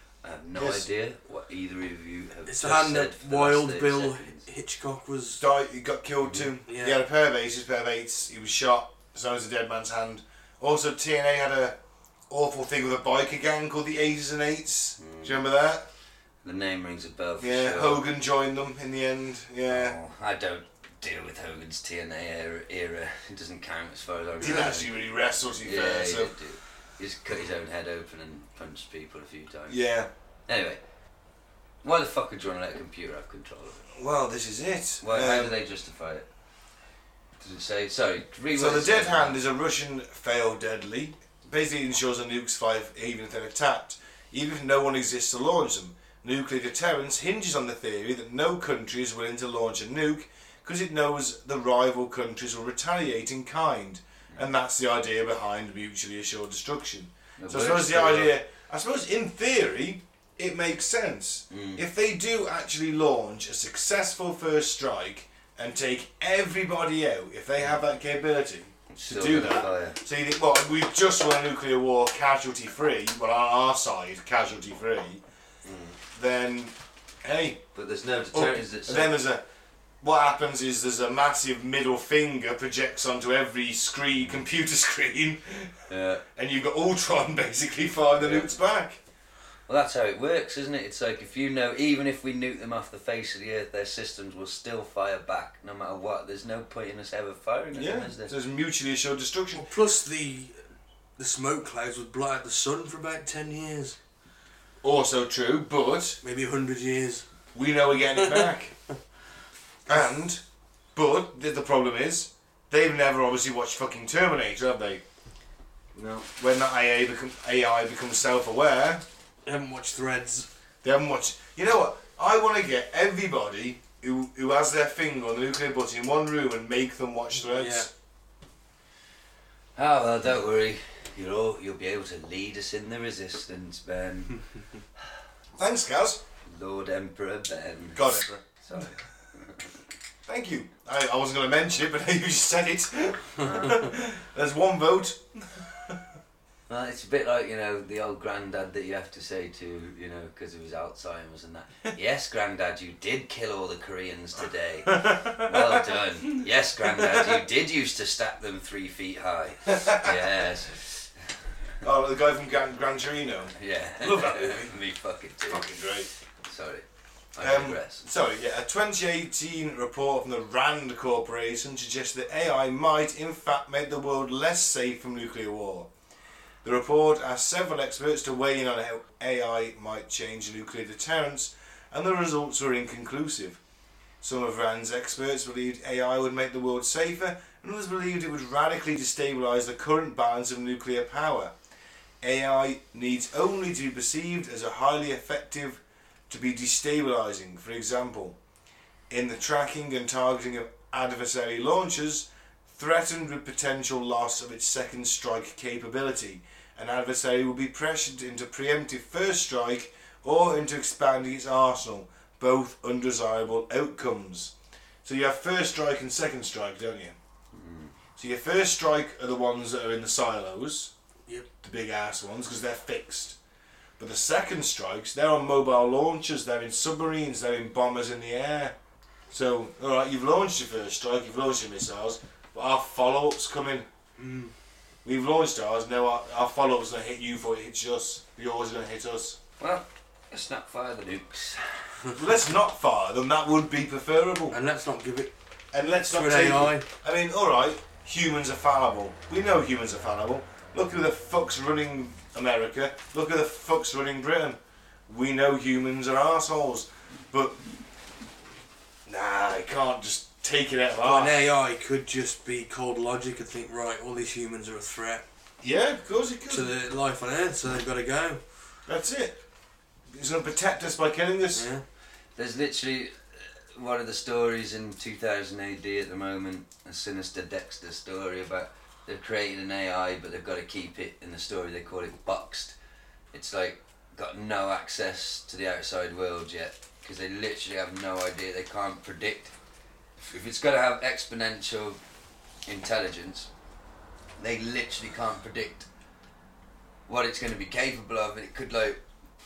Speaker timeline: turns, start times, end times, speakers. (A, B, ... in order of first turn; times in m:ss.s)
0:00.2-0:04.4 A
0:00.5-0:00.8 B
0:02.5-0:05.4 C
0:05.4-0:11.8 B
0:06.7-0:07.0 C
0:12.3-0:15.8 B
0:15.0-0:15.4 A
0:16.4-0:18.0 A
0:17.4-0:20.0 B
0:19.6-0:24.9 A
0:24.4-0:26.3 B
0:25.6-0:29.8 A
0:29.7-0:30.1 B
0:30.5-0:30.8 A
0:31.8-0:33.8 A
0:33.9-0:35.5 B
0:35.0-0:36.3 A
0:37.4-0:39.4 A
0:38.5-1:15.2 B
0:57.4-0:58.3 A
1:01.5-1:01.8 A
1:08.9-1:10.0 A
1:15.6-1:16.0 A
1:16.1-1:17.6 B
1:17.7-1:19.1 A
1:18.3-1:19.4 B
1:20.0-1:25.7 B
1:24.2-1:24.4 A
1:25.9-1:26.2 A
1:26.3-1:29.0 B
1:28.2-1:28.5 A
1:29.7-1:38.3 A
1:37.7-1:39.6 B
1:39.5-1:40.6 C
1:41.2-1:44.0 C
1:44.8-1:46.2 B
1:46.2-1:47.2 C
1:47.5-1:48.7 B
1:48.2-1:48.5 C
1:49.9-1:50.4 B
1:50.9-1:55.0 B
1:55.9-1:56.3 A
1:56.4-1:59.0 B
1:59.4-2:00.5 C
2:00.8-2:07.9 B
2:07.4-2:07.9 C
2:09.8-2:14.3 A
2:15.6-2:16.2 B
2:16.4-2:19.6 A
2:17.9-2:18.3 B
2:20.2-2:26.0 B
2:23.4-2:23.8 A
2:26.7-2:41.1 A
2:34.9-2:37.4 B
2:39.7-2:40.2 B
2:41.8-2:44.7 B
2:43.6-2:45.7 A
2:45.5-2:46.1 B
2:46.4-2:46.8 A
2:47.3-2:48.0 A
2:47.4-2:55.9 B
2:56.6-3:03.6 B
3:04.2-3:11.5 B
3:12.2-3:18.4 B
3:19.1-3:34.5 B
3:35.0-3:37.1 B
3:37.5-3:37.9 A
3:38.2-3:40.9 B
3:41.6-3:43.4 B
3:44.0-3:48.7 B
3:49.3-3:53.9 B
3:54.2-3:54.5 C
3:55.0-3:59.4 B
3:59.6-4:01.8 A
4:02.1-4:04.6 B
4:04.5-4:05.3 C
4:05.7-4:17.6 B
4:06.1-4:06.8 C
4:19.1-4:21.4 B
4:21.0-4:25.2 C
4:25.6-4:26.7 B
4:26.5-4:28.4 C
4:28.8-4:29.4 B
4:30.1-4:31.6 B
4:31.5-4:31.8 C
4:32.4-4:42.8 A
4:43.3-4:49.5 A
4:50.2-4:52.0 A
4:52.7-4:53.5 A
4:54.4-4:55.9 A
4:57.1-4:59.0 A